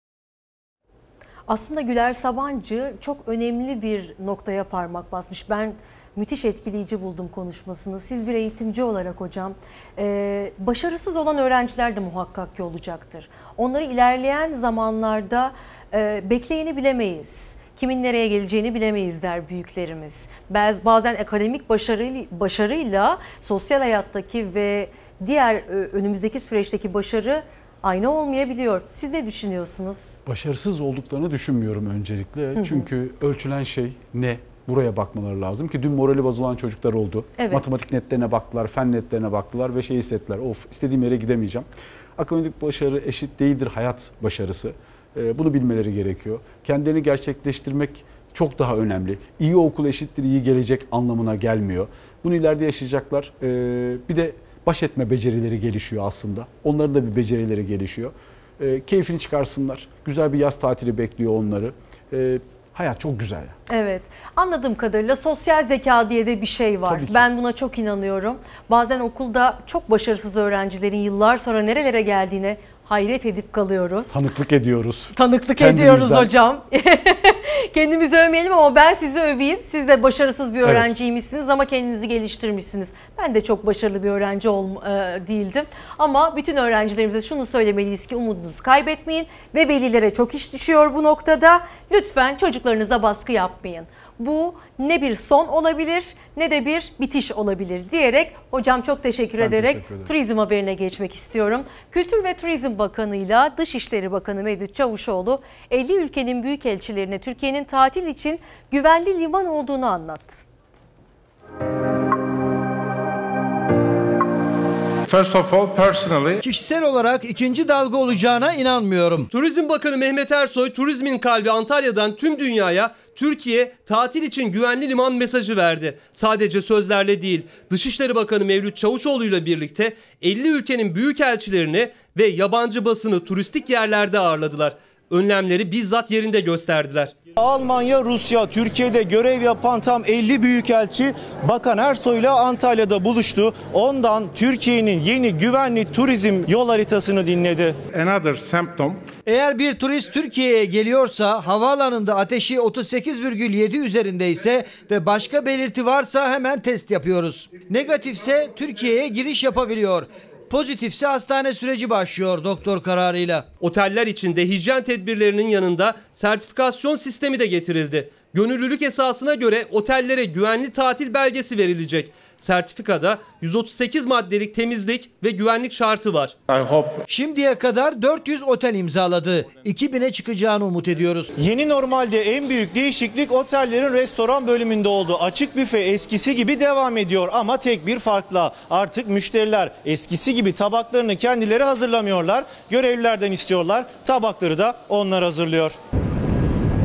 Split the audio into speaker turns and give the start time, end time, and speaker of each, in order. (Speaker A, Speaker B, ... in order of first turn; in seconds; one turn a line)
Speaker A: 1.5-30.2
Speaker B: 30.3-63.6
Speaker A: 32.6-32.9
Speaker A: 37.4-37.6
Speaker A: 63.7-74.2
Speaker B: 66.8-67.3
Speaker B: 74.1-76.3
Speaker A: 75.1-110.4
Speaker B: 80.6-80.9
Speaker B: 99.4-100.1
Speaker C: 115.1-116.4
Speaker D: 116.4-119.3
Speaker E: 119.3-137.1
Speaker F: 137.4-147.8
Speaker C: 147.9-149.0
Speaker D: 149.3-163.5
Speaker E: 163.6-176.4
Speaker C: 176.5-177.0
Speaker D: 177.1-181.3
Speaker F: 181.3-195.8